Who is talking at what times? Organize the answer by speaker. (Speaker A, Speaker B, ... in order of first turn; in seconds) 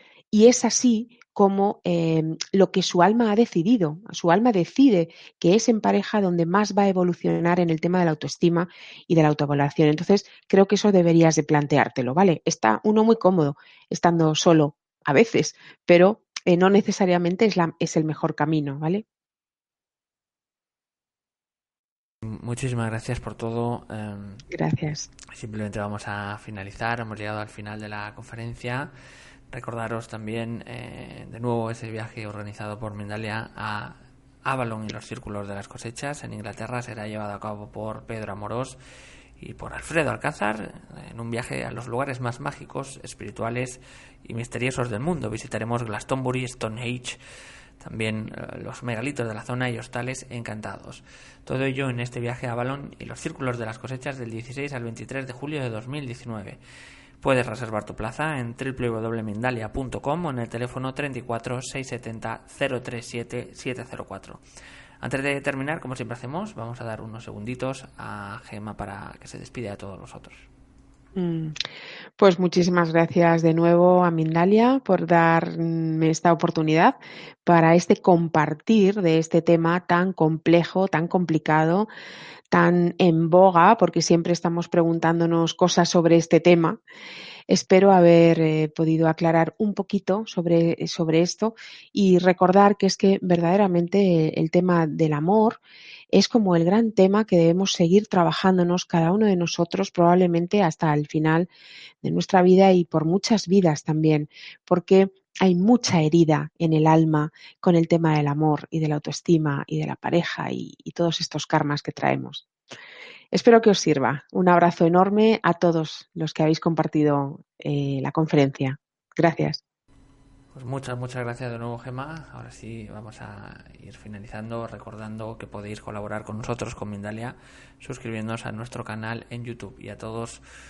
Speaker A: 0.3-19.0, 24.5-25.1, 71.2-71.6, 72.2-81.9, 82.5-86.8, 87.5-95.6, 96.1-101.5, 102.0-112.5, 113.3-119.6
Speaker B: 22.2-24.4, 25.3-28.9, 29.5-38.8, 39.4-47.2, 47.8-56.6, 57.2-64.4, 65.0-70.5, 120.5-130.4